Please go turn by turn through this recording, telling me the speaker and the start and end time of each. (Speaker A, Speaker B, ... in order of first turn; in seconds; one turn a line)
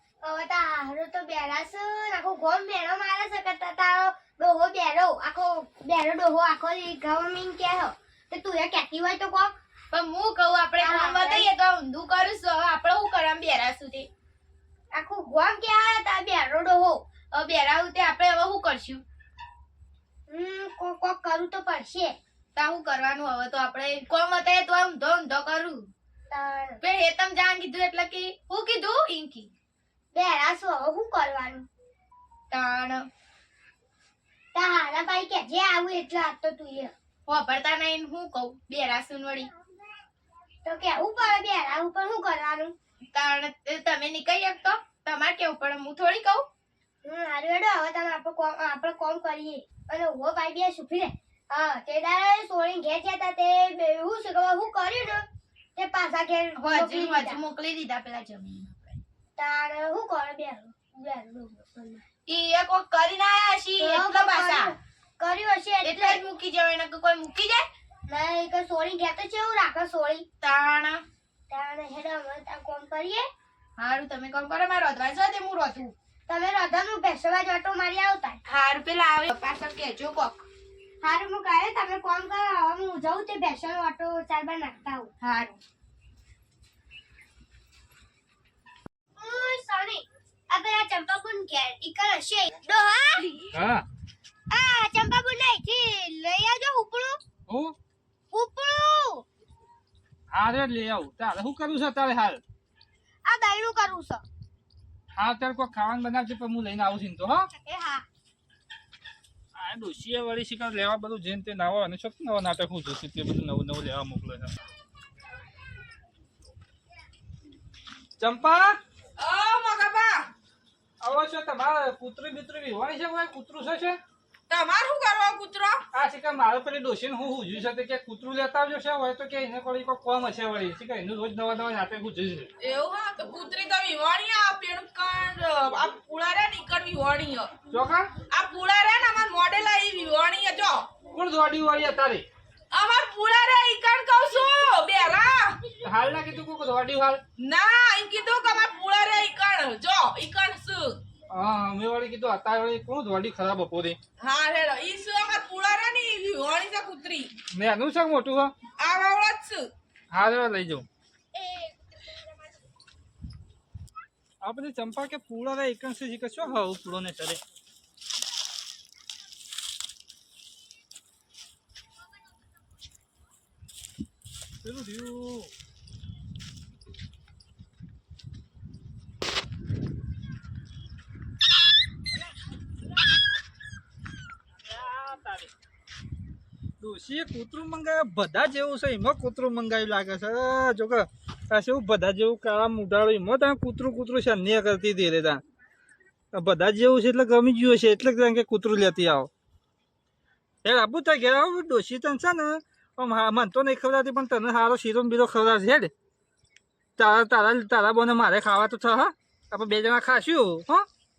Speaker A: 0.2-9.6
Speaker B: 9.9-14.1
Speaker A: 10.8-11.5
Speaker A: 14.9-17.0
Speaker B: 17.3-19.0
Speaker A: 20.3-22.2
Speaker B: 22.6-25.9
Speaker A: 26.3-26.8
Speaker B: 26.8-29.5
Speaker A: 30.1-31.7
Speaker B: 32.5-33.1
Speaker A: 34.5-36.9
Speaker B: 37.3-39.5
Speaker A: 40.6-42.8
Speaker B: 43.1-46.5
Speaker A: 47.0-57.4
Speaker B: 56.6-59.0
Speaker A: 59.4-62.0
Speaker B: 62.3-64.8
Speaker A: 63.8-66.2
Speaker B: 65.8-67.7
Speaker A: 68.1-70.2
Speaker B: 70.4-71.0
Speaker A: 71.5-73.3
Speaker B: 73.8-75.9
Speaker A: 76.3-78.4
Speaker B: 78.5-80.5
Speaker A: 81.0-85.1
Speaker B: 85.2-85.6
Speaker A: 89.2-93.3
Speaker C: 93.5-93.8
Speaker A: 94.5-97.2
Speaker C: 97.5-97.8
Speaker A: 98.3-99.2
Speaker C: 100.3-102.4
Speaker A: 103.3-104.2
Speaker C: 105.2-107.5
Speaker A: 107.5-108.0
Speaker C: 109.5-114.5
Speaker C: 118.2-118.8
Speaker D: 119.2-120.3
Speaker C: 121.0-124.0
Speaker D: 124.5-125.8
Speaker C: 125.9-132.5
Speaker D: 132.6-137.5
Speaker C: 137.7-138.1
Speaker D: 138.3-141.0
Speaker C: 141.1-142.2
Speaker D: 142.7-145.6
Speaker C: 145.8-147.2
Speaker D: 147.4-151.0
Speaker C: 151.3-154.0
Speaker D: 154.2-157.4
Speaker C: 157.5-158.5
Speaker D: 158.8-159.7
Speaker C: 160.1-160.9
Speaker C: 164.4-167.4
Speaker C: 174.6-175.5
Speaker C: 184.7-185.5
Speaker C: 186.8-195.4
Speaker C: 196.3-199.3
Speaker C: 200.6-205.9
Speaker C: 207.0-210.9